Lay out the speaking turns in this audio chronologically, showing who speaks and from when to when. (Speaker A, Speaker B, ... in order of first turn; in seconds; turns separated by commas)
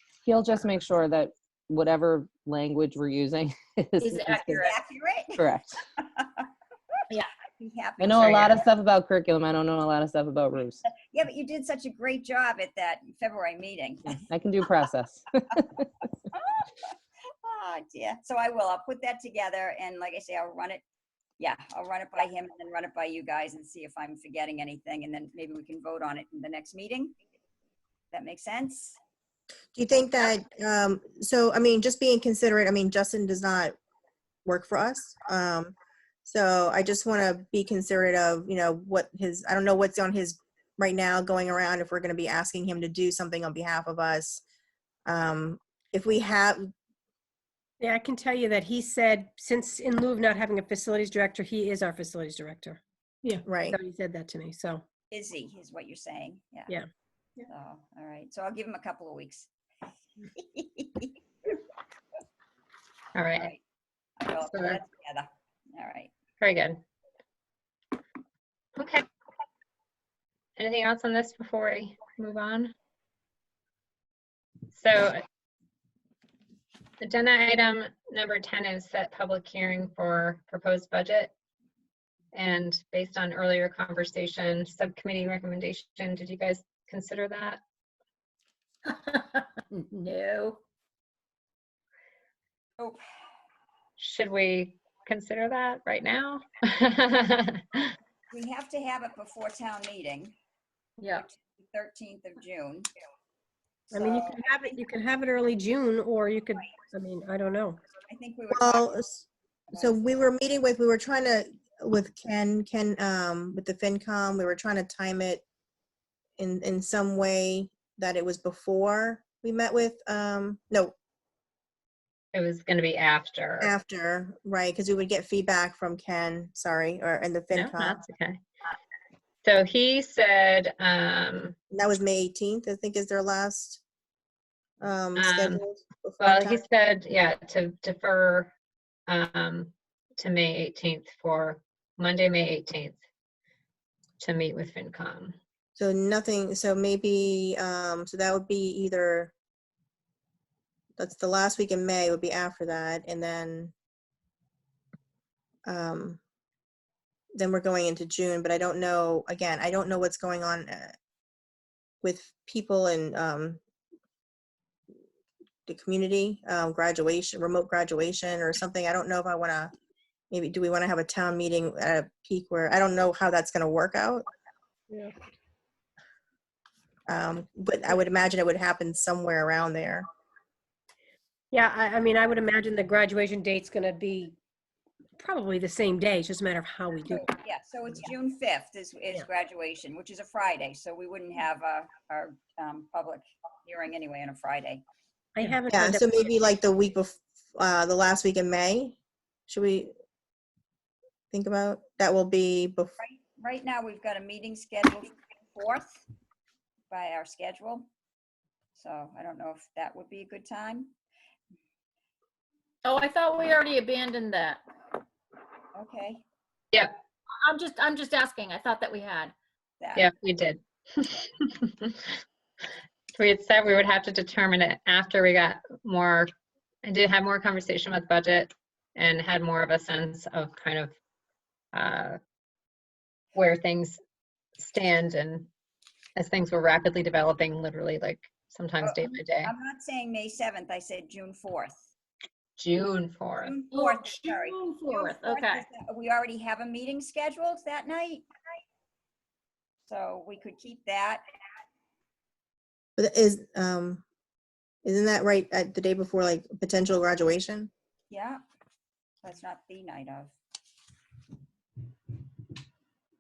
Speaker A: 0.3-4.7, Speaker B: 4.0-4.8, Speaker C: 4.5-5.4, Speaker A: 5.4-5.8, Speaker C: 6.0-6.5, Speaker C: 7.6-8.7, Speaker A: 8.0-10.8, Speaker B: 8.2-8.5, Speaker C: 11.1-14.2, Speaker A: 14.1-15.8, Speaker C: 16.3-16.9, Speaker C: 17.4-20.8, Speaker C: 21.4-27.1, Speaker C: 28.1-29.0, Speaker D: 29.7-33.8, Speaker D: 34.5-35.7, Speaker D: 36.2-44.4, Speaker D: 45.1-46.7, Speaker E: 47.8-54.8, Speaker D: 53.5-53.8, Speaker C: 55.1-56.7, Speaker C: 57.5-59.5, Speaker C: 60.4-61.1, Speaker F: 63.1-63.5, Speaker C: 63.4-63.6, Speaker C: 64.2-66.1, Speaker F: 64.5-64.8, Speaker F: 66.4-66.8, Speaker F: 68.8-69.0, Speaker F: 70.6-72.7, Speaker F: 74.7-75.2, Speaker F: 77.0-81.3, Speaker F: 82.3-87.6, Speaker B: 88.9-90.6, Speaker F: 94.0-97.9, Speaker C: 98.3-100.3, Speaker B: 101.0-101.3, Speaker C: 101.1-102.9, Speaker C: 103.9-104.4, Speaker E: 103.9-107.8, Speaker C: 108.1-109.0, Speaker D: 108.5-115.4, Speaker C: 109.7-110.0, Speaker D: 116.4-120.9, Speaker F: 122.3-123.7, Speaker D: 123.6-128.0, Speaker F: 127.5-128.4, Speaker F: 129.4-131.6, Speaker D: 131.7-133.8, Speaker D: 134.8-136.6, Speaker F: 135.2-135.6, Speaker F: 136.2-138.5, Speaker F: 139.1-143.0, Speaker F: 144.2-145.4, Speaker D: 145.8-149.3, Speaker D: 151.0-153.7, Speaker D: 155.7-156.2, Speaker D: 157.3-161.0, Speaker D: 162.0-163.6, Speaker D: 165.7-169.7, Speaker D: 170.3-174.2, Speaker D: 177.1-180.1, Speaker E: 181.5-184.4, Speaker E: 185.2-187.3, Speaker C: 187.1-194.8, Speaker E: 195.4-196.3, Speaker D: 195.7-199.0, Speaker D: 199.5-199.9, Speaker D: 201.3-202.9, Speaker C: 203.0-206.0, Speaker C: 206.9-207.9, Speaker C: 208.8-210.9, Speaker B: 212.8-214.6, Speaker C: 215.8-216.2, Speaker B: 217.4-219.3, Speaker C: 219.8-220.1, Speaker F: 220.0-222.0, Speaker F: 223.2-226.3, Speaker F: 226.8-230.9, Speaker F: 231.7-232.2, Speaker F: 233.3-234.0, Speaker F: 234.6-235.5, Speaker F: 236.2-239.5, Speaker C: 238.8-241.9, Speaker F: 242.6-243.6, Speaker C: 243.4-248.3, Speaker B: 243.7-245.7, Speaker C: 249.9-251.2, Speaker D: 253.0-254.0, Speaker D: 254.8-257.7, Speaker C: 258.1-258.4, Speaker C: 259.2-260.4